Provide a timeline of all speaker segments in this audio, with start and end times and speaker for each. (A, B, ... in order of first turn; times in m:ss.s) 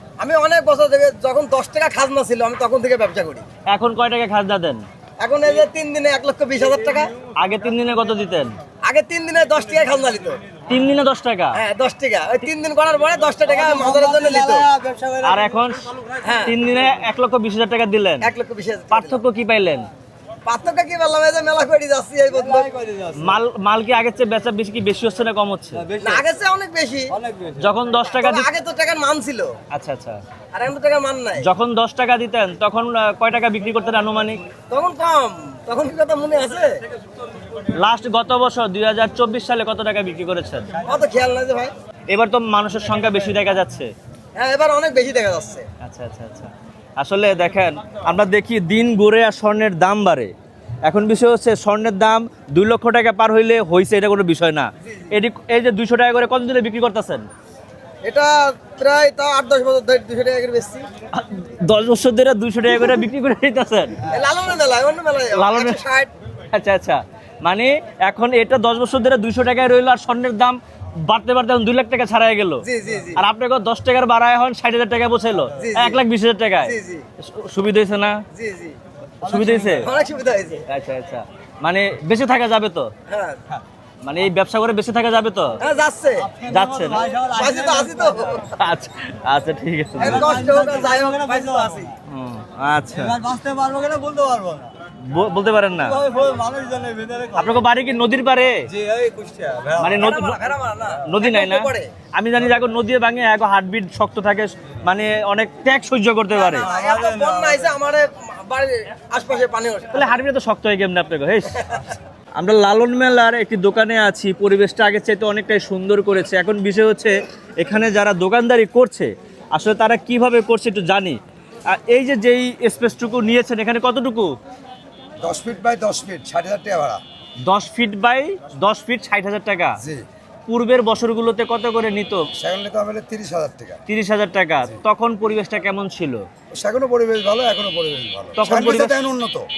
0:00.2-0:03.4 A
0:03.7-0:04.8 B
0:05.2-0:07.1 A
0:07.4-0:08.6 B
0:08.8-0:10.4 A
0:10.7-0:11.6 B
0:11.5-0:14.7 A
0:13.6-0:15.5 C
0:15.2-0:15.9 B
0:16.2-0:16.5 A
0:16.4-0:18.3 B
0:18.2-0:19.2 A
0:18.9-0:19.8 B
0:20.4-0:22.7 A
0:22.6-0:23.2 C
0:23.2-0:25.9 B
0:25.8-0:26.2 C
0:26.0-0:27.1 A
0:27.2-0:27.7 C
0:27.6-0:28.5 B
0:28.0-0:29.5 A
0:29.7-0:30.2 B
0:30.5-0:31.4 A
0:31.4-0:34.4 B
0:34.7-0:36.8 A
0:37.7-0:40.7 B
0:40.8-0:41.7 A
0:42.1-0:43.9 B
0:44.4-0:45.6 A
0:45.8-0:50.3 B
0:50.8-0:57.2 B
0:54.8-0:55.1 A
0:58.0-1:00.8 A
1:01.1-1:04.0 B
1:04.1-1:06.1 A
1:05.3-1:05.8 B
1:06.5-1:18.2 B
1:12.6-1:13.2 A
1:15.6-1:16.0 A
1:16.6-1:17.0 A
1:18.3-1:18.8 A
1:19.2-1:19.9 B
1:19.2-1:19.8 C
1:19.8-1:20.6 A
1:20.7-1:22.9 B
1:23.1-1:23.6 A
1:24.0-1:25.6 B
1:25.6-1:26.3 A
1:26.3-1:28.2 C
1:26.5-1:27.0 B
1:27.1-1:28.4 A
1:28.4-1:30.3 B
1:30.0-1:31.9 A
1:30.0-1:31.8 C
1:32.1-1:33.2 B
1:33.0-1:34.7 C
1:35.0-1:36.0 B
1:35.9-1:37.5 C
1:37.3-1:38.7 B
1:38.7-1:39.9 C
1:39.8-1:40.4 B
1:39.9-1:41.9 A
1:41.0-1:46.7 B
1:46.3-1:50.2 A
1:46.6-1:47.6 C
1:49.9-1:51.8 B
1:51.5-1:51.9 A
1:52.4-2:04.4 B
2:05.2-2:07.0 D
2:07.4-2:09.8 B
2:10.5-2:12.3 B
2:12.4-2:13.8 D
2:13.9-2:16.2 B
2:16.5-2:19.4 D
2:18.4-2:19.1 B